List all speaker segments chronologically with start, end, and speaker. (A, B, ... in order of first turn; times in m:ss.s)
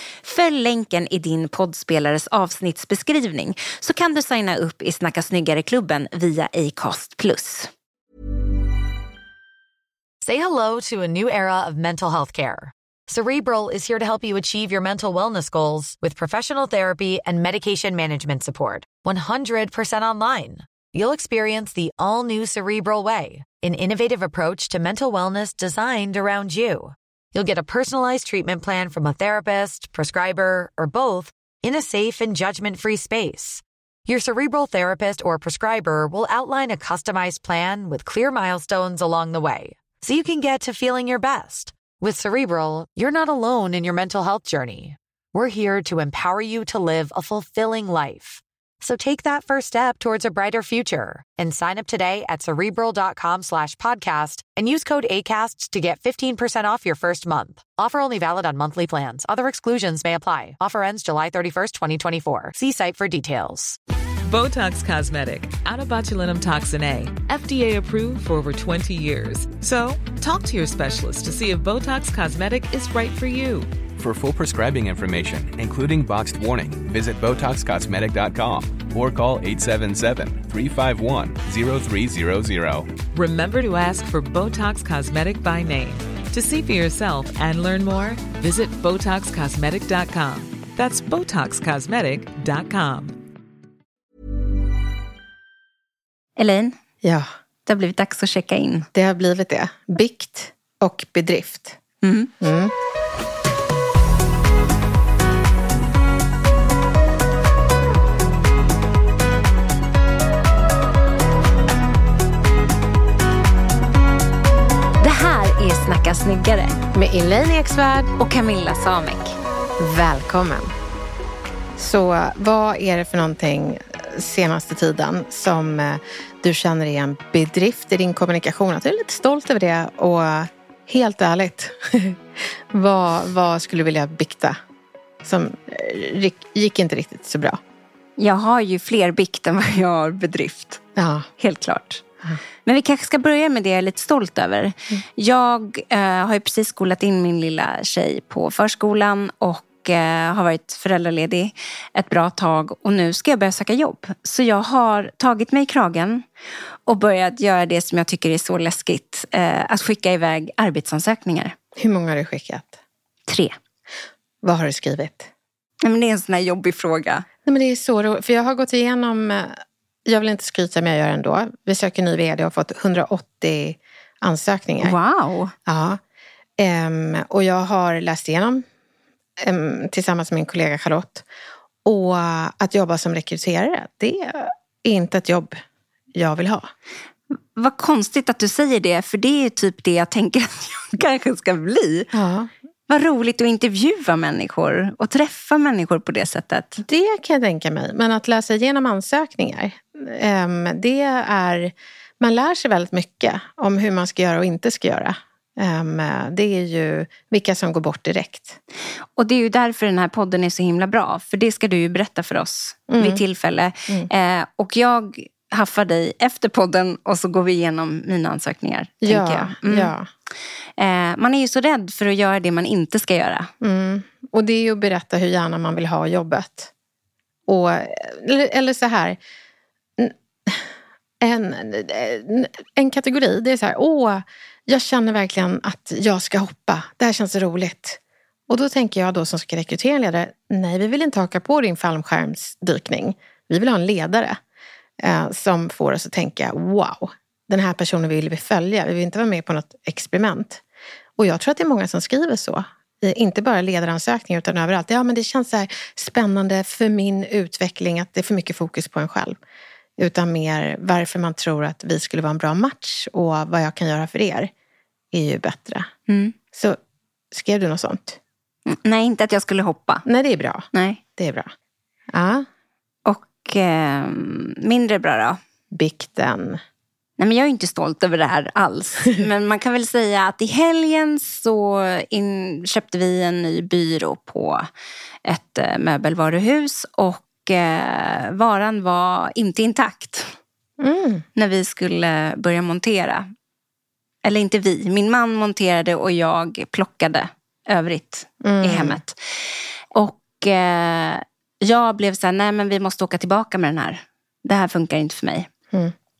0:00.2-0:07.7 A
0:10.2-1:03.8 B
1:04.3-1:13.7 C
1:14.0-1:22.9 D
1:23.1-1:33.2 C
1:36.4-1:36.8 A
1:37.0-1:37.3 E
1:37.7-1:38.9 A
1:39.0-1:41.8 E
1:42.0-1:42.3 A
1:42.4-1:42.7 E
1:55.0-1:56.8 A
1:56.9-1:58.1 E
1:58.2-1:59.4 A
1:59.8-2:00.7 E
2:01.8-2:14.6 E
2:15.2-2:17.6 E
2:18.2-2:20.8 A
2:21.0-2:21.3 E
2:21.4-2:22.0 A
2:22.6-2:36.2 A
2:36.9-2:41.6 A
2:41.8-2:42.8 E
2:43.3-2:43.6 A
2:44.4-2:45.3 E
2:45.8-2:47.3 A
2:47.5-2:55.0 E
2:54.8-2:55.5 A
2:55.7-2:56.0 E
2:56.6-2:58.6 E
2:59.4-3:01.2 E
3:01.8-3:05.6 E
3:06.1-3:06.7 E
3:07.6-3:12.1 A
3:12.1-3:12.5 E
3:12.9-3:16.8 A
3:16.8-3:28.6 E
3:29.2-3:39.9 A
3:32.9-3:33.2 E
3:39.0-3:40.1 E
3:40.8-3:43.5 A
3:43.6-3:46.7 E
3:47.5-3:49.2 E
3:50.0-4:04.4 E
4:05.0-4:10.6 E
4:11.2-4:19.4 E
4:20.0-4:24.5 E
4:25.1-4:25.9 E
4:26.1-4:26.4 A
4:26.5-4:26.8 E
4:27.3-4:28.2 E
4:28.7-4:30.0 A
4:30.0-4:31.5 E
4:30.7-4:31.0 A
4:32.1-4:32.5 E
4:33.1-4:35.4 A
4:35.7-4:36.6 E
4:37.2-4:44.7 A
4:45.3-4:50.4 A
4:50.8-4:51.2 E
4:51.4-4:53.3 A
4:54.2-5:05.5 A
4:58.4-4:59.0 E